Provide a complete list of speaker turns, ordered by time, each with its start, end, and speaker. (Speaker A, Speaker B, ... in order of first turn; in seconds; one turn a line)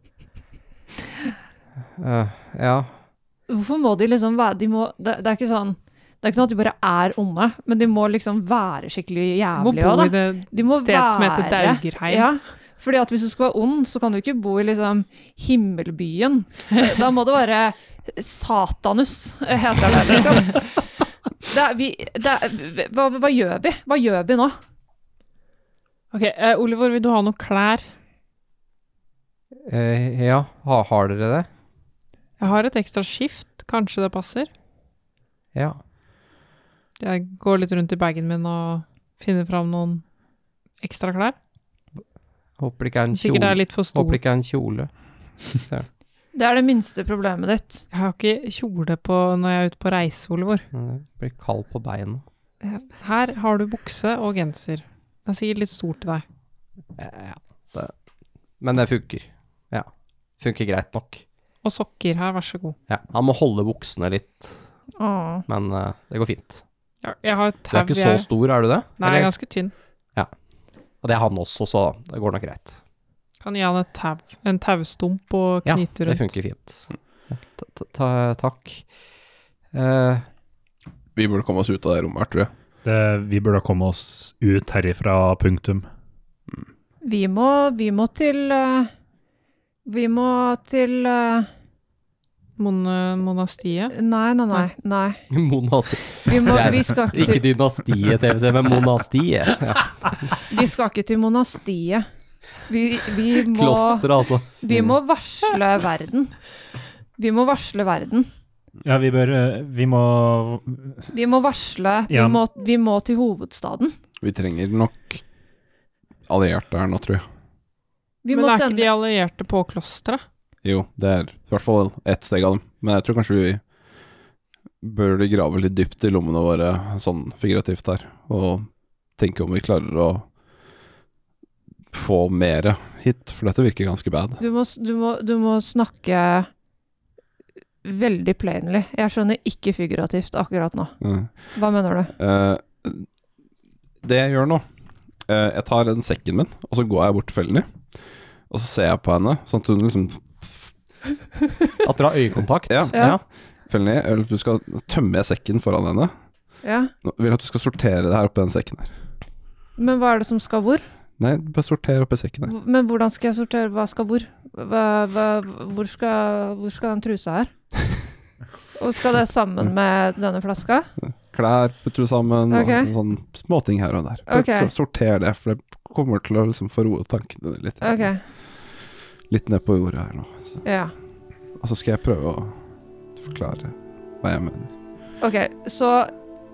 Speaker A: 2.0-2.9
Speaker B: 3.5-20.8
Speaker C: 9.6-12.3
Speaker B: 21.4-24.6
Speaker C: 26.1-27.8
Speaker A: 29.6-31.5
Speaker C: 32.4-34.5
Speaker C: 37.0-40.0
Speaker C: 40.8-41.3
Speaker A: 42.6-44.9
Speaker C: 43.1-44.2
Speaker A: 45.5-45.9
Speaker B: 46.3-47.8
Speaker C: 47.9-50.6
Speaker A: 50.7-52.2
Speaker C: 52.6-56.2
Speaker A: 57.0-57.9
Speaker A: 58.6-61.2
Speaker C: 61.6-62.8
Speaker A: 62.9-64.5
Speaker B: 65.0-65.4
Speaker A: 65.5-66.6
Speaker C: 67.0-68.3
Speaker A: 67.7-69.3
Speaker C: 69.0-69.7
Speaker A: 71.0-72.8
Speaker C: 73.4-76.2
Speaker A: 75.6-78.8
Speaker A: 79.7-80.2
Speaker D: 81.2-82.5
Speaker E: 82.8-85.8
Speaker B: 87.0-88.9
Speaker B: 89.8-91.5
Speaker C: 92.6-93.9
Speaker B: 93.9-95.2
Speaker A: 95.3-100.3
Speaker B: 96.2-97.5
Speaker B: 100.5-102.0
Speaker B: 102.7-104.1
Speaker A: 103.4-104.9
Speaker B: 104.6-106.4
Speaker B: 107.2-108.3
Speaker E: 108.8-111.0
Speaker B: 111.1-113.9
Speaker E: 112.1-112.4
Speaker D: 114.2-115.2
Speaker D: 116.3-117.2
Speaker B: 118.2-118.9
Speaker C: 118.3-120.2
Speaker D: 120.6-123.6
Speaker D: 124.8-130.3
Speaker D: 131.9-134.4
Speaker B: 134.4-136.5
Speaker B: 137.8-140.9
Speaker D: 141.0-141.3
Speaker B: 141.5-142.1
Speaker D: 142.2-143.1
Speaker D: 144.0-144.6
Speaker D: 145.3-147.7
Speaker D: 148.5-150.7
Speaker A: 151.8-153.2
Speaker D: 152.7-153.0
Speaker D: 153.7-156.1
Speaker B: 156.6-156.9
Speaker D: 157.0-158.9
Speaker B: 159.8-160.8
Speaker D: 161.2-162.5
Speaker B: 162.4-167.5
Speaker B: 168.8-170.9
Speaker D: 171.0-178.1
Speaker B: 172.5-172.9
Speaker B: 174.3-174.7
Speaker B: 177.8-178.2
Speaker D: 179.3-180.6
Speaker B: 180.6-180.9
Speaker D: 181.6-182.6
Speaker D: 183.2-184.7
Speaker B: 185.2-186.1